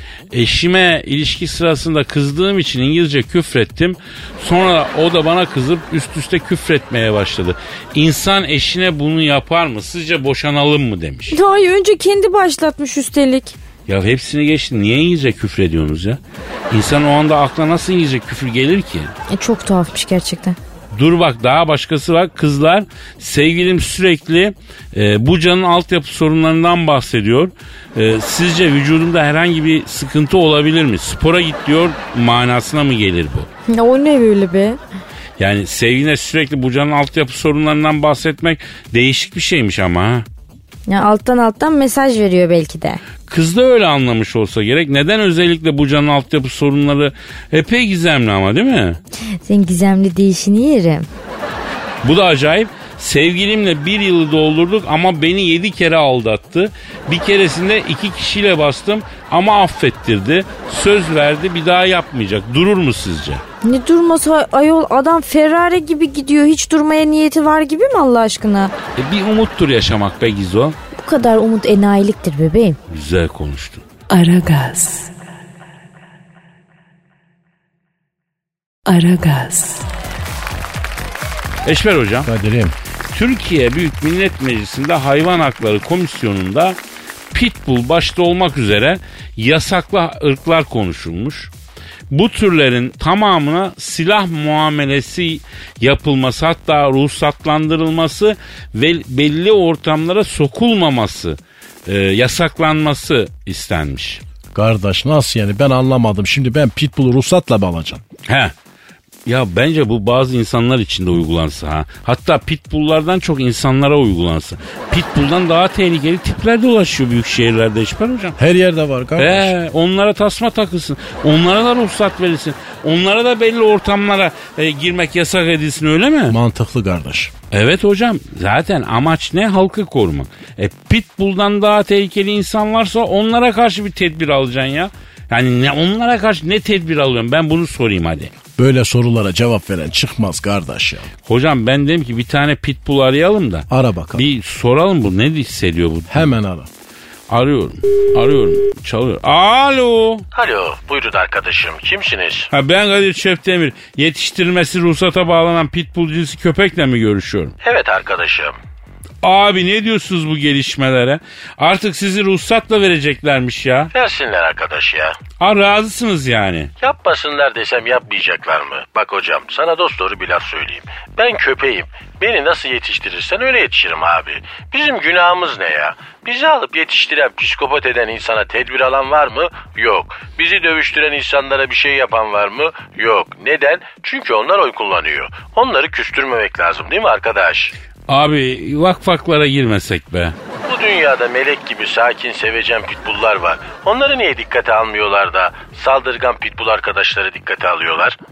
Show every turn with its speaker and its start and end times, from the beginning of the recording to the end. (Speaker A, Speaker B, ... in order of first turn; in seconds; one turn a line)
Speaker A: 0.3-11.4
Speaker B: 11.3-13.6
Speaker A: 13.9-16.2
Speaker A: 16.7-19.1
Speaker B: 19.3-20.6
Speaker A: 20.9-33.5
Speaker B: 33.7-34.8
Speaker A: 35.4-40.3
Speaker B: 40.9-43.0
Speaker A: 43.3-49.0
Speaker B: 49.3-51.1
Speaker A: 52.0-63.4
Speaker B: 63.6-68.7
Speaker A: 69.0-70.8
Speaker B: 70.9-72.8
Speaker A: 72.9-73.8
Speaker C: 74.1-75.1
Speaker C: 78.9-79.9
Speaker A: 81.7-82.3
Speaker D: 82.3-82.8
Speaker A: 83.1-86.8
Speaker A: 87.3-91.5
Speaker A: 92.1-104.2
Speaker D: 104.5-108.0
Speaker A: 108.3-108.5
Speaker A: 109.3-118.4
Speaker D: 118.4-119.5
Speaker A: 119.2-126.4
Speaker D: 126.3-127.3
Speaker A: 127.5-138.3
Speaker D: 138.6-141.1
Speaker A: 141.3-146.3
Speaker D: 143.7-144.3
Speaker D: 146.1-146.7
Speaker A: 147.3-150.3
Speaker E: 150.3-152.5
Speaker A: 152.5-157.6
Speaker E: 157.6-158.6
Speaker A: 159.2-163.9
Speaker E: 163.9-165.2
Speaker A: 165.4-166.7
Speaker E: 166.8-187.7
Speaker A: 188.1-190.4
Speaker E: 190.7-198.2